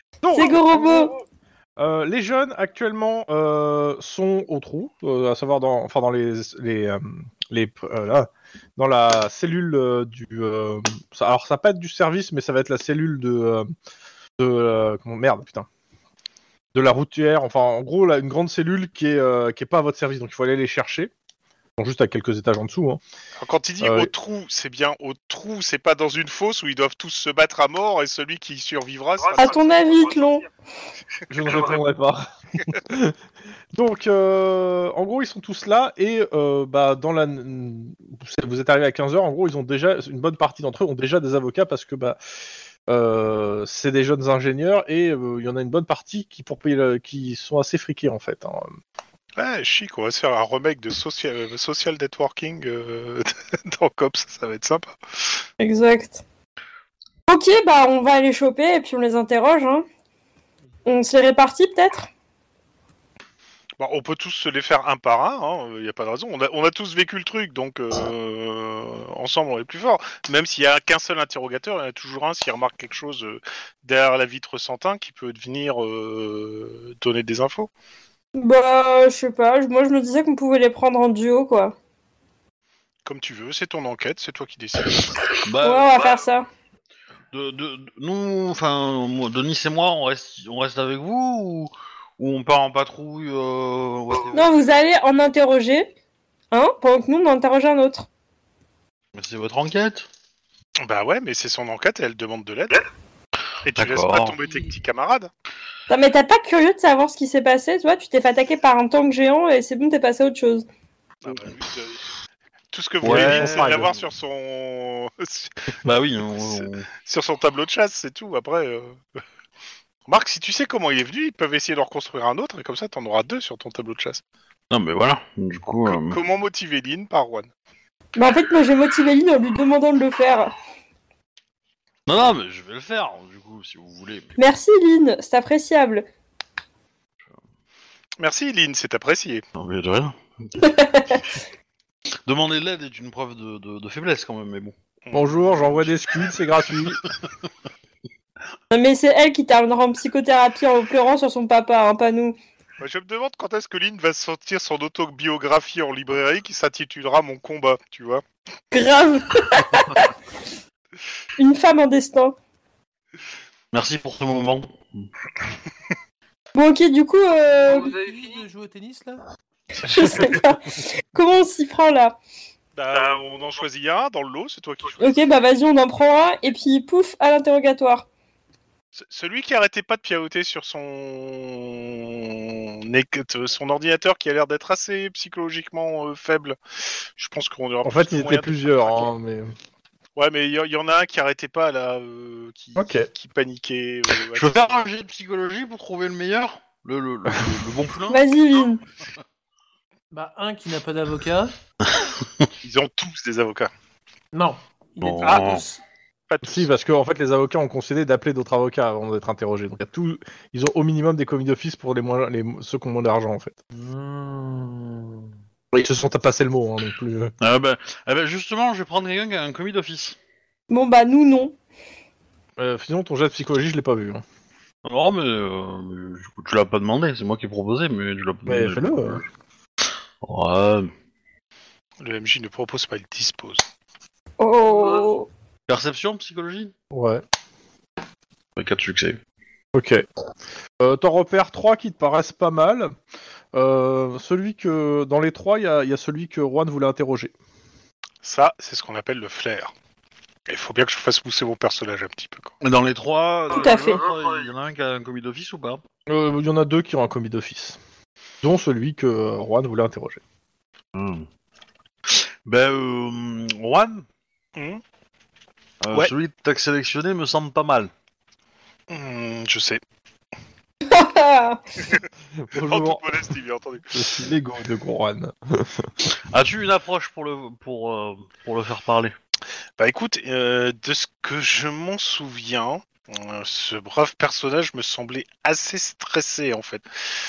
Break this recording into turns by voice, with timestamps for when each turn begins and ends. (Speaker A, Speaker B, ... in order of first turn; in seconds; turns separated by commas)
Speaker A: 0.2-1.1, Speaker B: 0.3-1.1, Speaker A: 1.8-13.7, Speaker A: 14.4-15.7, Speaker A: 16.7-21.1, Speaker A: 21.8-23.0, Speaker C: 23.4-29.9, Speaker A: 23.8-24.1, Speaker B: 29.4-30.5, Speaker A: 31.3-33.2, Speaker A: 33.7-42.2, Speaker A: 42.9-48.7, Speaker C: 49.4-55.5, Speaker B: 55.6-56.2, Speaker B: 57.3-59.9, Speaker B: 60.9-62.1, Speaker C: 63.8-77.7, Speaker B: 78.3-81.8, Speaker C: 83.0-85.2, Speaker D: 85.4-86.0, Speaker B: 85.6-86.5, Speaker D: 87.3-94.6, Speaker B: 94.3-95.9, Speaker B: 96.5-98.1, Speaker D: 99.2-100.1, Speaker C: 100.8-102.8, Speaker C: 103.7-105.3, Speaker D: 103.7-104.4, Speaker B: 105.9-110.7, Speaker C: 111.2-112.0, Speaker C: 112.7-115.7, Speaker D: 113.0-113.9, Speaker A: 113.0-113.9, Speaker D: 115.8-116.9, Speaker C: 116.4-119.0, Speaker C: 120.1-124.2, Speaker D: 124.7-126.2, Speaker C: 125.9-127.5, Speaker B: 128.2-130.6, Speaker D: 132.1-134.3, Speaker B: 134.4-136.1, Speaker C: 138.2-139.4, Speaker D: 139.6-140.2, Speaker B: 140.6-141.3, Speaker D: 142.3-144.8, Speaker C: 145.0-145.9, Speaker A: 145.1-147.0, Speaker B: 148.7-152.4, Speaker C: 152.8-158.2, Speaker B: 158.7-160.1, Speaker B: 161.4-162.3, Speaker D: 163.7-165.1, Speaker B: 166.5-168.0, Speaker E: 167.7-169.2, Speaker B: 169.8-172.2, Speaker C: 172.8-175.2, Speaker B: 175.0-178.1, Speaker C: 178.9-189.1, Speaker A: 187.8-189.6, Speaker C: 190.2-194.8, Speaker A: 192.8-193.1, Speaker D: 194.3-198.2, Speaker B: 198.1-198.8, Speaker E: 200.1-201.6, Speaker D: 201.9-202.5, Speaker C: 202.6-203.7, Speaker E: 204.3-205.8, Speaker D: 205.0-205.6, Speaker C: 205.2-205.5, Speaker C: 206.3-206.7, Speaker A: 206.4-213.6, Speaker E: 213.7-215.3, Speaker A: 215.7-217.3, Speaker D: 217.4-220.2, Speaker B: 220.7-221.6, Speaker A: 222.6-224.2, Speaker D: 224.8-229.2, Speaker A: 228.5-229.2, Speaker D: 230.2-230.9, Speaker C: 232.0-233.7, Speaker B: 234.4-235.3, Speaker D: 235.7-236.7, Speaker A: 236.9-237.2, Speaker D: 238.6-239.2, Speaker A: 239.8-240.0, Speaker A: 240.8-242.9, Speaker A: 243.5-247.3, Speaker C: 248.2-249.7, Speaker C: 250.5-252.5, Speaker D: 252.6-255.8, Speaker B: 253.5-254.0, Speaker A: 256.1-257.8, Speaker A: 258.4-260.2, Speaker D: 260.9-261.3, Speaker D: 262.1-264.1, Speaker C: 264.6-264.8, Speaker D: 265.8-267.9, Speaker C: 268.9-269.8, Speaker B: 270.9-271.6, Speaker A: 272.4-273.0, Speaker C: 272.5-274.0, Speaker A: 273.9-275.9, Speaker D: 276.1-279.1, Speaker C: 279.8-286.9